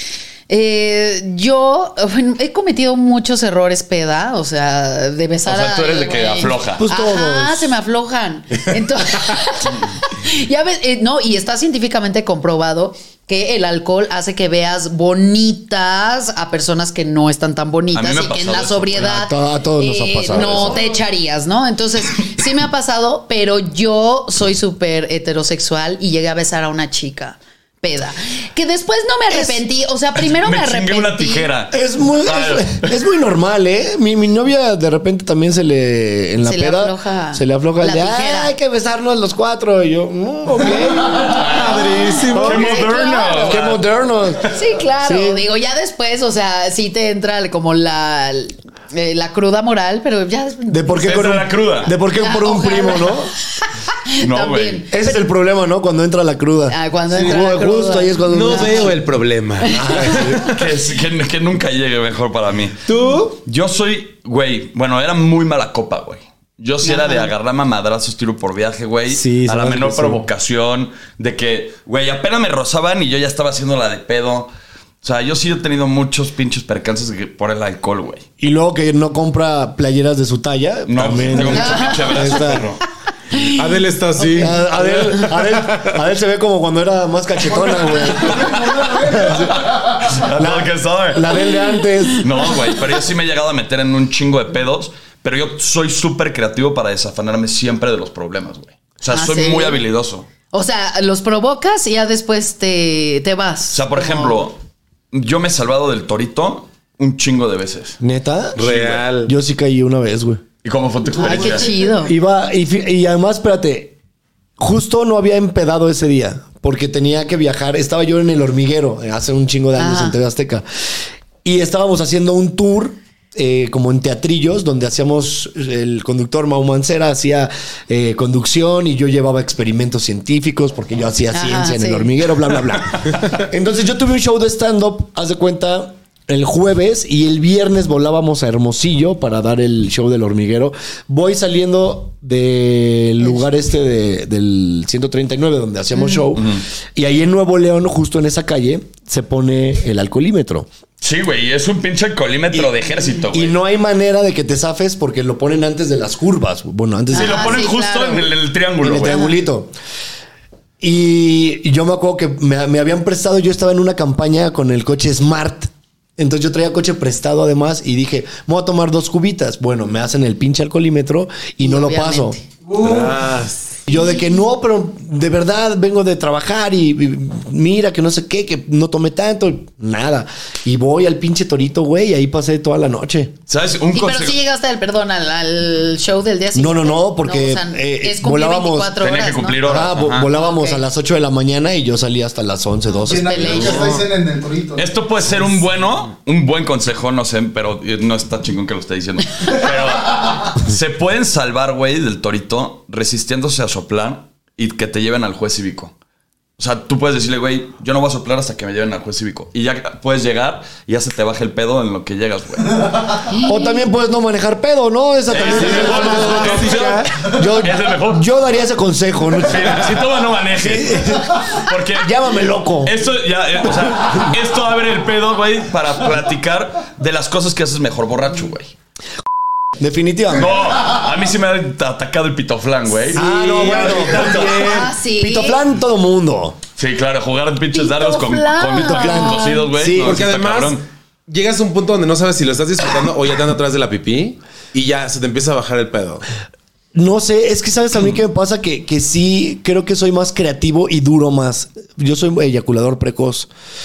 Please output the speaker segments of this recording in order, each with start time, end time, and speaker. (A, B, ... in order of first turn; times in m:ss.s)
0:00.5-0:31.5 A
0:05.5-0:06.8 B
0:06.8-0:07.7 C
0:17.9-0:19.2 B
0:19.0-0:20.9 C
0:30.2-0:32.9 B
0:31.7-0:41.6 C
0:36.4-0:38.5 A
0:41.2-0:42.9 D
0:42.3-0:42.8 C
0:42.3-0:43.6 A
0:42.4-0:43.8 B
0:43.4-0:45.4 C
0:44.5-0:51.0 A
0:50.7-0:53.3 C
0:51.0-0:51.9 B
0:52.1-0:55.2 A
0:54.2-0:54.8 B
0:54.9-0:59.0 C
0:56.7-0:59.0 A
0:58.3-1:00.4 D
0:59.6-1:00.5 A
0:59.7-1:00.6 C
1:00.4-1:02.9 B
1:02.9-1:03.4 D
1:03.4-1:14.5 B
1:06.8-1:07.3 A
1:09.1-1:10.2 C
1:15.0-1:18.2 B
1:18.4-1:22.7 C
1:20.9-1:22.8 B
1:21.5-1:22.3 A
1:23.4-1:25.9 D
1:24.2-1:29.6 C
1:27.7-1:30.1 E
1:28.3-1:31.4 B
1:30.3-1:32.5 C
1:32.2-1:40.3 B
1:39.1-1:39.8 A
1:40.5-1:44.4 A
1:43.7-1:44.6 B
1:45.1-1:48.0 B
1:48.0-1:50.4 C
1:48.6-1:49.3 D
1:48.6-1:49.0 B
1:50.6-1:51.7 B
1:51.1-1:52.1 A
1:51.2-1:54.0 C
1:54.6-2:00.6 C
1:59.8-2:00.2 A
2:01.4-2:30.7 C
2:11.3-2:12.1 A
2:25.9-2:26.3 A
2:26.4-2:26.6 B
2:31.0-2:33.6 B
2:32.5-2:37.6 C
2:37.1-2:38.3 A
2:37.1-2:39.2 B
2:38.8-2:39.7 C
2:39.0-2:39.4 A
2:40.8-2:52.4 C
2:51.6-2:52.4 A
2:52.7-2:53.2 E
2:52.8-2:53.8 D
2:53.9-3:03.3 C
3:03.5-3:04.4 B
3:03.9-3:09.6 A
3:06.5-3:09.0 C
3:09.0-3:10.3 B
3:09.6-3:13.8 C
3:10.3-3:10.8 A
3:12.9-3:13.9 A
3:13.1-3:14.9 E
3:14.8-3:25.9 B
3:26.6-3:33.0 B
3:33.3-3:33.8 A
3:33.4-3:40.0 C
3:35.3-3:38.3 B
3:35.4-3:37.1 D
3:39.4-3:42.1 B
3:40.6-3:43.0 C
3:42.8-3:48.7 B
3:49.8-3:50.6 C
3:50.4-3:54.6 B
3:53.1-3:56.6 C
3:53.2-3:54.9 D
3:54.6-3:55.6 A
3:56.8-4:00.8 B
3:57.7-3:59.7 A
3:58.8-4:00.2 C
4:00.0-4:06.2 D
4:06.9-4:13.5 C